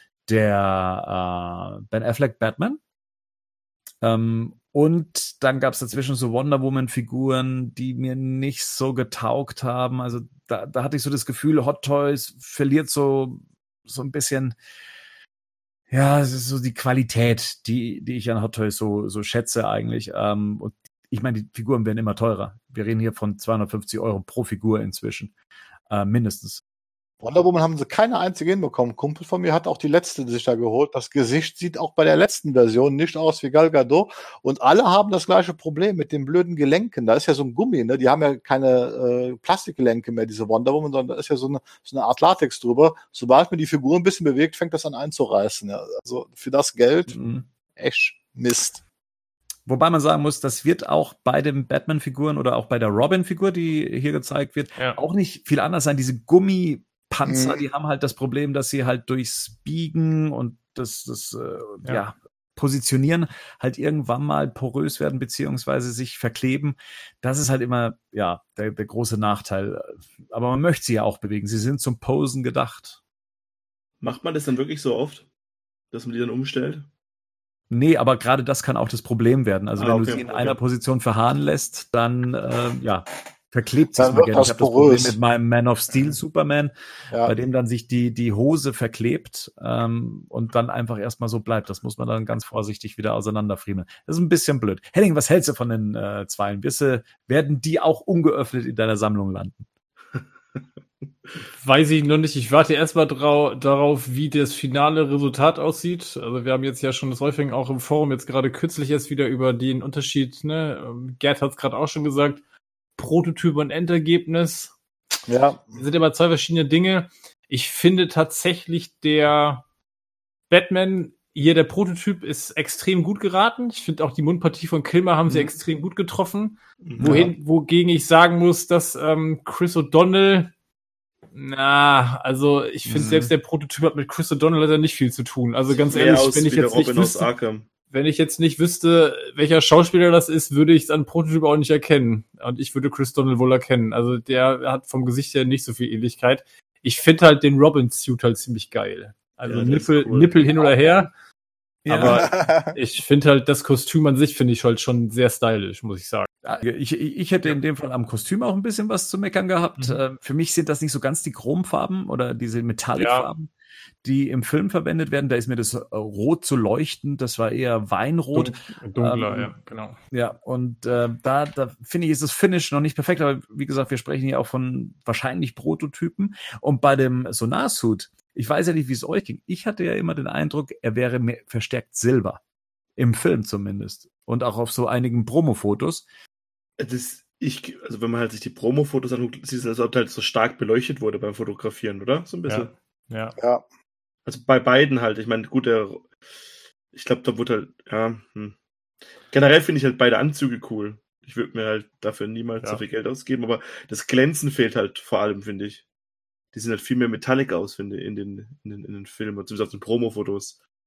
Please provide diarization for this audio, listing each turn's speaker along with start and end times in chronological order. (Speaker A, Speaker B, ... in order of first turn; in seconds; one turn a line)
Speaker A: 0.3-2.8
Speaker A: 4.0-14.6
Speaker A: 15.9-25.3
Speaker A: 25.9-26.6
Speaker B: 27.2-47.2
Speaker A: 47.1-47.5
Speaker B: 47.8-48.8
Speaker A: 49.7-73.0
Speaker B: 57.2-57.6
Speaker C: 74.0-75.3
Speaker C: 75.9-76.9
Speaker A: 77.7-99.7
Speaker C: 79.8-80.6
Speaker B: 84.0-85.2
Speaker D: 101.6-112.4
Speaker D: 113.0-114.7
Speaker B: 115.3-115.8
Speaker D: 115.7-119.7
Speaker D: 120.5-130.5
Speaker A: 125.3-125.5
Speaker C: 126.8-127.2
Speaker A: 127.0-127.3
Speaker D: 131.3-137.3
Speaker A: 132.9-133.3
Speaker C: 135.8-137.7
Speaker D: 137.9-151.1
Speaker C: 149.5-150.7
Speaker A: 151.8-152.3
Speaker D: 151.9-156.3
Speaker B: 152.0-152.8
Speaker A: 156.4-163.5
Speaker D: 163.0-163.3
Speaker A: 164.0-169.5
Speaker D: 168.3-170.0
Speaker A: 170.1-182.4
Speaker A: 183.0-186.1
Speaker C: 186.8-192.7
Speaker D: 192.5-193.4
Speaker B: 193.4-193.6
Speaker C: 194.3-196.1
Speaker C: 196.9-198.6
Speaker C: 199.3-205.8
Speaker C: 206.5-210.6